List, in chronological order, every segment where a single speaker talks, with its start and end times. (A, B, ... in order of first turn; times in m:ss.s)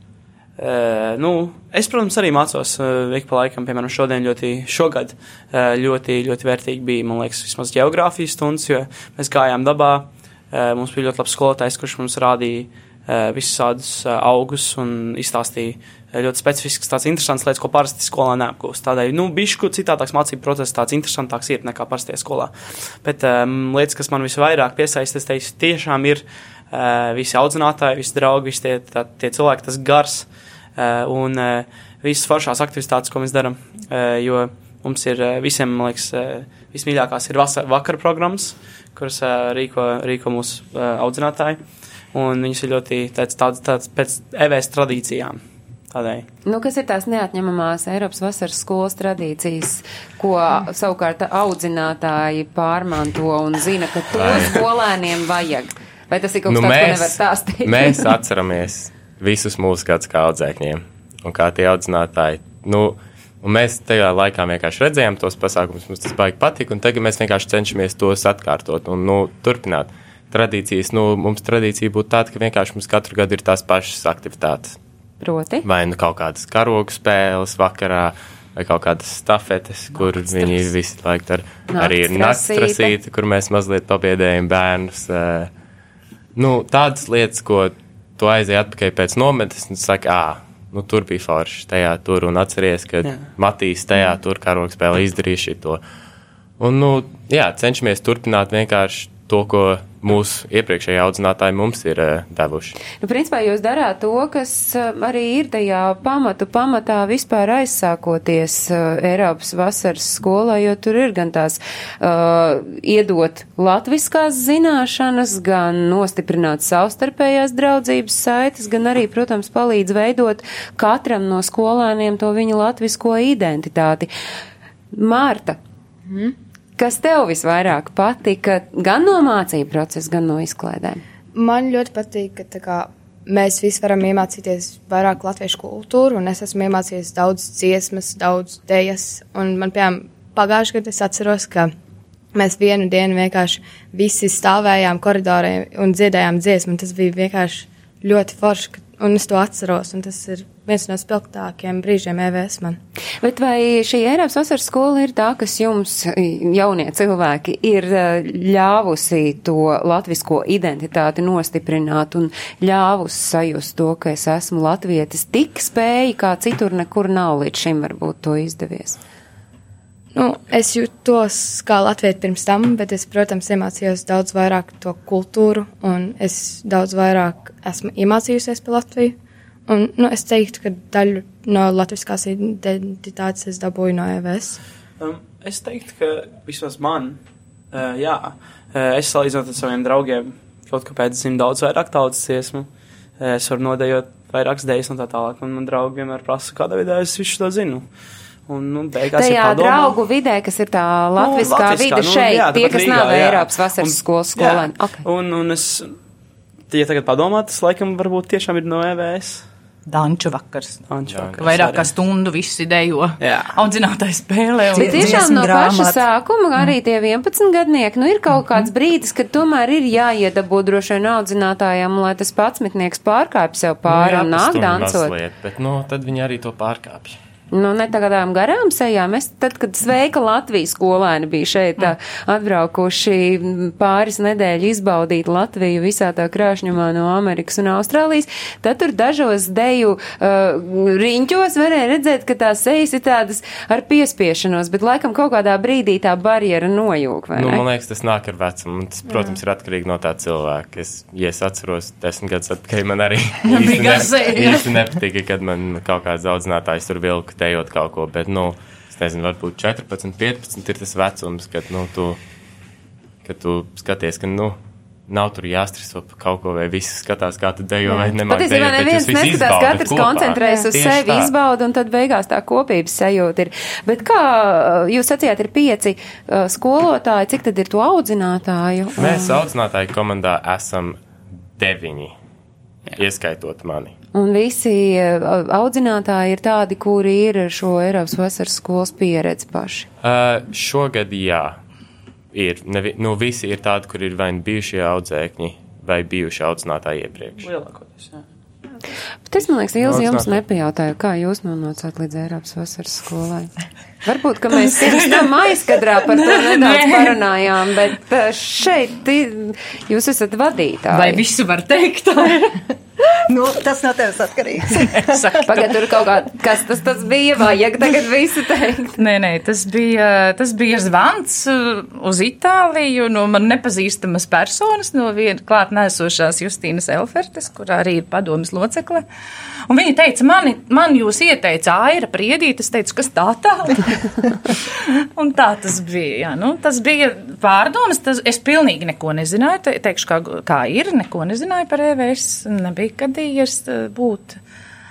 0:00.6-0:46.3 A
0:46.4-0:58.1 B
0:54.1-0:54.6 C
0:56.5-1:14.8 C
1:15.2-1:15.6 B
1:15.6-1:25.5 C
1:20.2-1:20.5 B
1:21.7-1:22.9 B
1:26.3-1:35.8 C
1:33.0-1:33.3 A
1:36.6-1:42.8 C
1:43.0-2:04.1 B
2:04.9-2:05.6 B
2:06.1-2:06.3 D
2:06.8-2:11.0 B
2:11.3-2:21.7 D
2:22.3-2:32.8 D
2:33.2-2:49.0 B
2:50.1-2:59.2 D
2:59.7-3:04.6 D
3:05.0-3:07.2 A
3:07.7-3:12.7 A
3:13.2-3:17.9 A
3:18.5-3:19.9 A
3:19.1-3:25.0 B
3:21.2-3:26.0 A
3:26.7-3:29.4 A
3:29.9-3:30.9 E
3:30.9-3:31.9 A
3:31.1-3:31.8 C
3:31.4-3:35.3 E
3:33.2-3:33.5 A
3:34.7-3:36.0 F
3:34.8-3:45.1 B
3:43.8-3:47.2 C
3:47.5-4:07.6 B
4:07.3-4:22.2 C
4:09.1-4:09.4 D
4:13.4-4:14.7 E
4:23.2-4:31.3 C
4:28.2-4:39.4 B
4:39.0-4:41.0 C
4:41.6-4:42.1 C
4:42.9-4:43.9 C
4:44.1-4:49.9 B
4:50.0-4:51.6 C
4:52.3-4:57.4 C
4:57.4-4:58.2 A
4:59.3-5:03.5 B
4:59.8-5:00.4 C
5:04.0-5:11.2 B
5:04.5-5:07.2 E
5:10.9-5:12.6 E
5:13.2-5:15.4 F
5:14.8-5:15.7 E
5:15.4-5:19.0 B
5:19.0-5:29.0 E
5:29.7-5:44.4 E